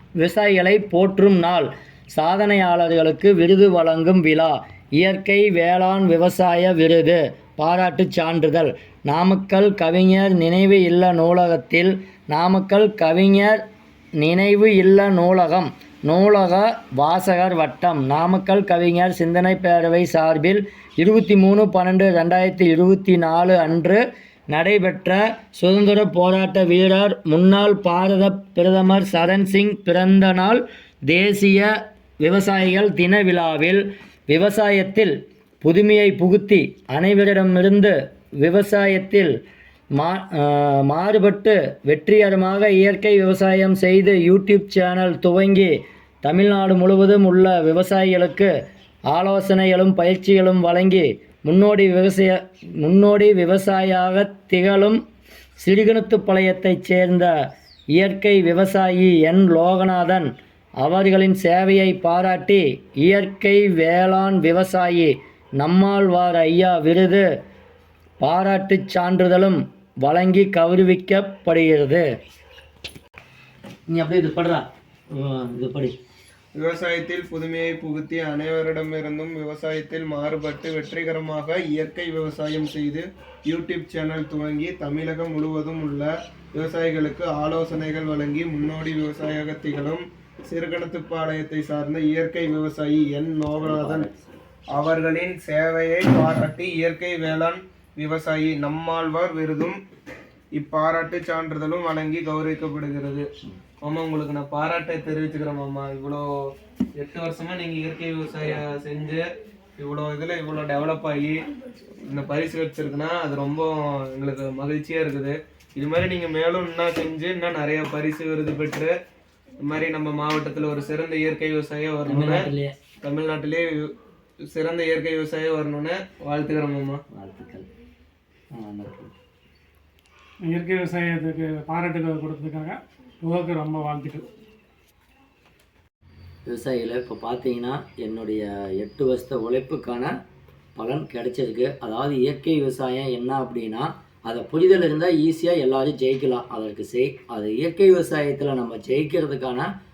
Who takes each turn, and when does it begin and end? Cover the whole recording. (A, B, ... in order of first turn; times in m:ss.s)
0:00.2-0:13.6 A
0:14.2-0:39.3 A
0:40.0-0:48.5 A
0:49.1-0:55.0 A
0:55.6-0:57.3 A
0:58.0-1:00.3 A
1:00.8-1:07.3 A
1:08.2-1:12.0 A
1:13.9-1:15.9 A
1:16.6-1:34.1 B
1:33.6-1:34.3 A
1:34.8-1:39.8 B
1:40.6-1:43.3 B
1:43.8-1:46.2 B
1:47.0-1:49.2 B
1:49.8-1:51.4 B
1:52.1-1:58.9 B
1:59.6-2:02.5 B
2:02.1-2:02.7 A
2:03.0-2:03.9 B
2:04.5-2:07.0 B
2:07.1-2:07.7 A
2:08.5-2:09.1 A
2:10.5-2:14.2 C
2:16.5-2:20.1 A
2:20.8-2:29.7 A